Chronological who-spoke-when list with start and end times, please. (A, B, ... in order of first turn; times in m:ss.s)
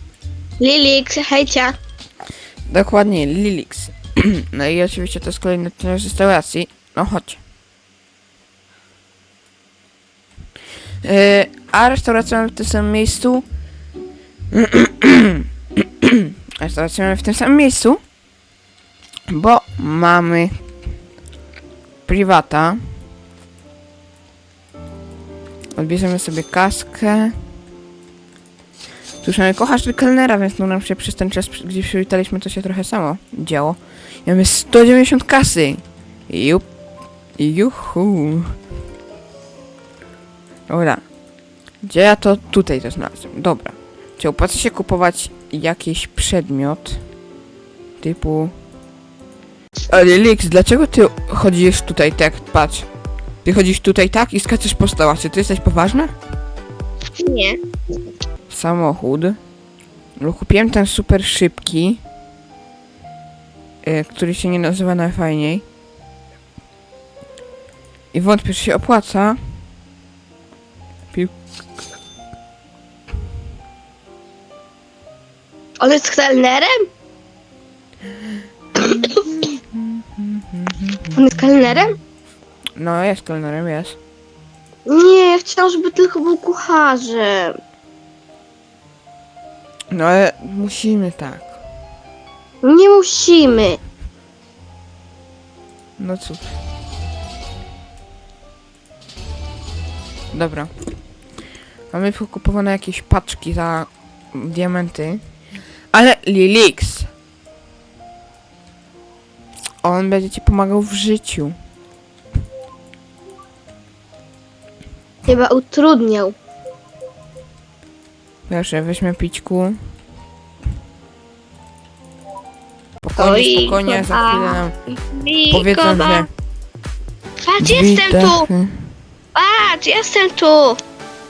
0:00.6-0:01.7 A
0:02.7-0:07.4 B
0:11.0-0:13.4 B
0:14.5-0:18.0 B
0:19.3-0:20.6 B
0:22.0-0:22.9 B
0:25.8-0:27.4 B
0:29.2-0:36.6 B
0:37.4-0:38.5 B
0:40.7-0:41.0 B
0:41.8-0:47.0 B
0:48.0-0:48.5 B
0:49.9-0:52.8 B
0:53.4-0:56.1 B
0:57.2-0:57.6 A
0:58.5-0:59.4 B
1:00.2-1:02.0 B
1:03.8-1:05.6 B
1:08.1-1:09.6 B
1:15.8-1:16.8 A
1:18.8-1:21.1 B
1:21.2-1:21.9 A
1:22.8-1:24.0 B
1:24.8-1:27.5 A
1:29.9-1:31.5 B
1:32.6-1:33.8 A
1:36.0-1:36.5 B
1:40.3-1:40.7 B
1:41.9-1:45.2 B
1:45.9-1:47.1 B
1:49.8-1:51.5 B
1:55.3-1:56.4 A
1:58.5-1:59.8 B
2:03.0-2:04.7 B
2:03.2-2:06.3 A
2:05.5-2:06.3 B
2:07.4-2:08.5 A
2:07.6-2:08.8 B
2:09.3-2:10.8 A